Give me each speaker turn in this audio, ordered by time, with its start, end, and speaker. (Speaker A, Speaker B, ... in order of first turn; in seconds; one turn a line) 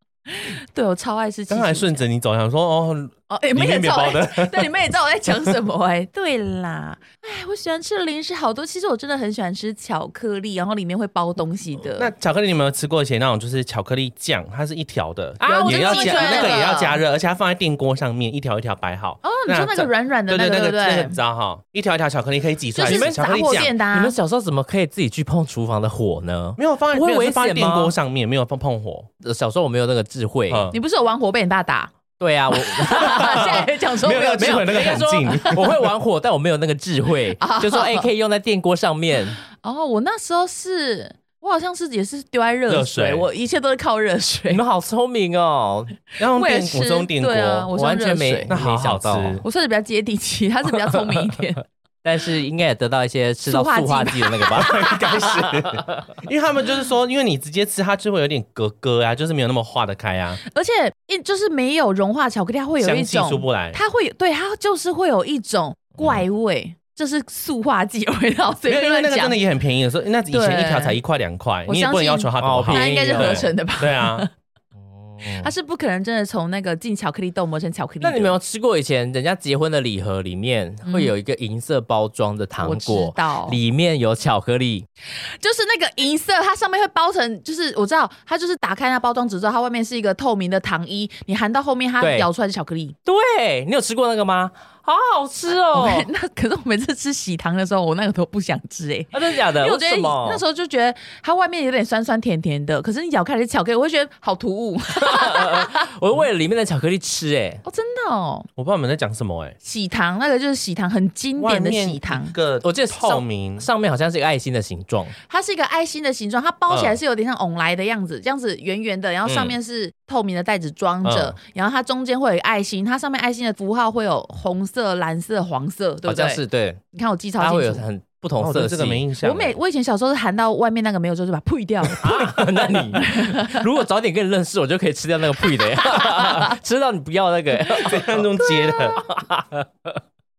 Speaker A: 0.3-2.0
Speaker B: 1.5-4.7
Speaker A: 3.3-12.1
Speaker B: 11.8-23.8
Speaker C: 15.4-16.6
Speaker A: 15.4-17.0
Speaker A: 19.2-21.2
Speaker A: 22.8-24.2
Speaker C: 22.8-27.9
Speaker B: 26.6-29.1
Speaker C: 29.2-30.7
Speaker B: 30.5-30.8
Speaker A: 30.7-31.9
Speaker C: 32.2-33.6
Speaker A: 32.5-35.6
Speaker B: 33.1-35.9
Speaker C: 34.4-39.4
Speaker A: 37.4-38.1
Speaker A: 39.5-44.6
Speaker B: 42.7-43.2
Speaker C: 44.5-46.0
Speaker B: 46.2-47.7
Speaker A: 46.3-48.5
Speaker C: 47.8-49.4
Speaker B: 48.5-49.4
Speaker A: 49.4-51.6
Speaker C: 50.9-51.4
Speaker C: 52.0-56.0
Speaker A: 53.5-55.3
Speaker B: 54.6-60.4
Speaker A: 60.5-69.4
Speaker B: 62.8-63.8
Speaker B: 68.7-74.3
Speaker A: 70.3-71.0
Speaker A: 71.7-74.3
Speaker C: 72.4-73.5
Speaker C: 74.8-75.5
Speaker A: 75.3-78.4
Speaker C: 78.0-84.9
Speaker A: 80.8-81.1
Speaker A: 82.6-83.6
Speaker A: 85.4-93.0
Speaker C: 92.0-92.3
Speaker C: 93.1-96.1
Speaker A: 95.7-105.9
Speaker C: 99.1-100.4
Speaker C: 105.0-107.6
Speaker A: 107.7-108.5
Speaker B: 108.6-109.6
Speaker A: 109.6-112.3
Speaker B: 111.4-113.7
Speaker C: 112.6-115.2
Speaker A: 115.3-126.4
Speaker B: 116.7-117.0
Speaker C: 119.2-119.6
Speaker B: 121.0-121.4
Speaker C: 126.1-126.8
Speaker A: 126.9-127.8
Speaker C: 127.4-129.0
Speaker B: 128.4-129.6
Speaker A: 129.2-133.6
Speaker C: 131.9-138.2
Speaker A: 135.8-136.5
Speaker B: 137.8-139.0
Speaker A: 138.4-139.0
Speaker C: 138.9-140.0